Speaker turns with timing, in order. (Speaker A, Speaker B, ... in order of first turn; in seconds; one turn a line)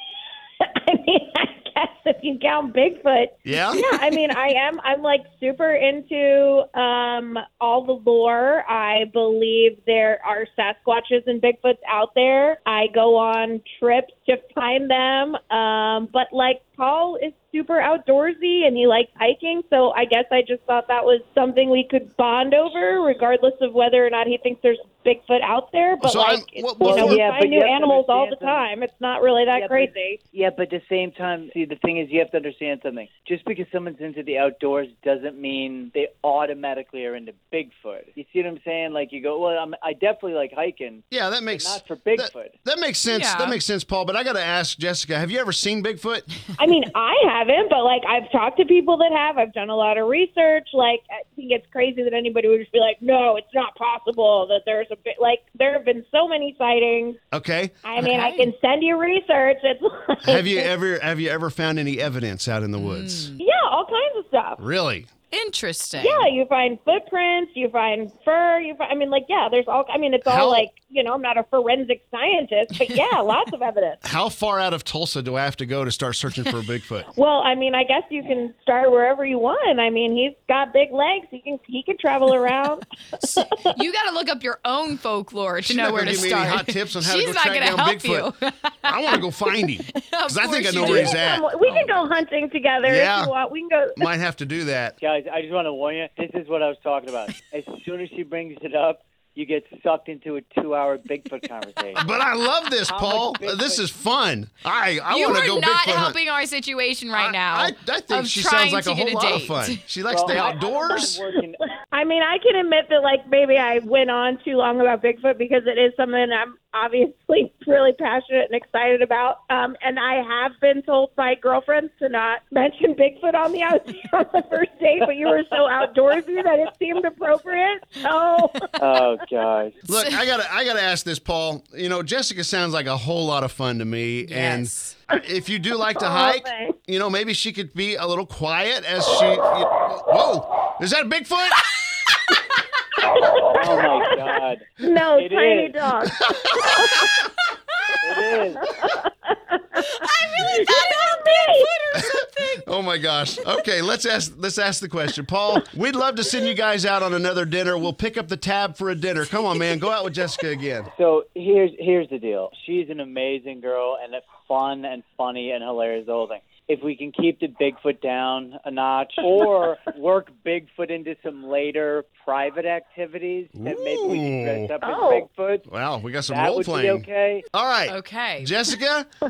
Speaker A: 0.6-30.2
Speaker B: 3.5-3.8
Speaker B: 26.0-27.2
Speaker C: 26.8-28.7
Speaker C: 29.5-42.6
Speaker B: 41.1-46.3
Speaker D: 43.1-43.6
Speaker A: 46.6-57.2
Speaker B: 57.3-58.5
Speaker A: 57.8-60.7
Speaker B: 60.2-63.3
Speaker D: 62.8-63.4
Speaker A: 63.4-64.6
Speaker B: 64.6-65.1
Speaker D: 65.3-66.3
Speaker A: 66.0-74.0
Speaker B: 70.2-70.7
Speaker B: 74.0-77.1
Speaker A: 77.1-83.7
Speaker D: 83.2-91.1
Speaker B: 85.6-88.3
Speaker B: 88.8-91.5
Speaker C: 90.8-91.2
Speaker A: 90.9-94.0
Speaker B: 92.8-93.3
Speaker B: 94.0-94.9
Speaker C: 95.0-102.0
Speaker B: 102.0-106.2
Speaker C: 102.8-103.9
Speaker D: 105.1-109.8
Speaker B: 107.1-111.1
Speaker C: 110.1-111.7
Speaker A: 110.3-129.1
Speaker C: 128.8-129.8
Speaker B: 129.9-141.7
Speaker D: 129.9-130.2
Speaker D: 134.2-135.0
Speaker A: 135.9-136.8
Speaker A: 143.0-147.2
Speaker C: 143.5-145.8
Speaker C: 148.0-148.7
Speaker A: 148.6-151.7
Speaker D: 149.9-152.6
Speaker B: 151.9-160.9
Speaker C: 160.9-175.7
Speaker B: 173.6-174.7
Speaker A: 174.8-175.3
Speaker B: 175.7-179.1
Speaker C: 176.2-177.4
Speaker D: 177.9-178.6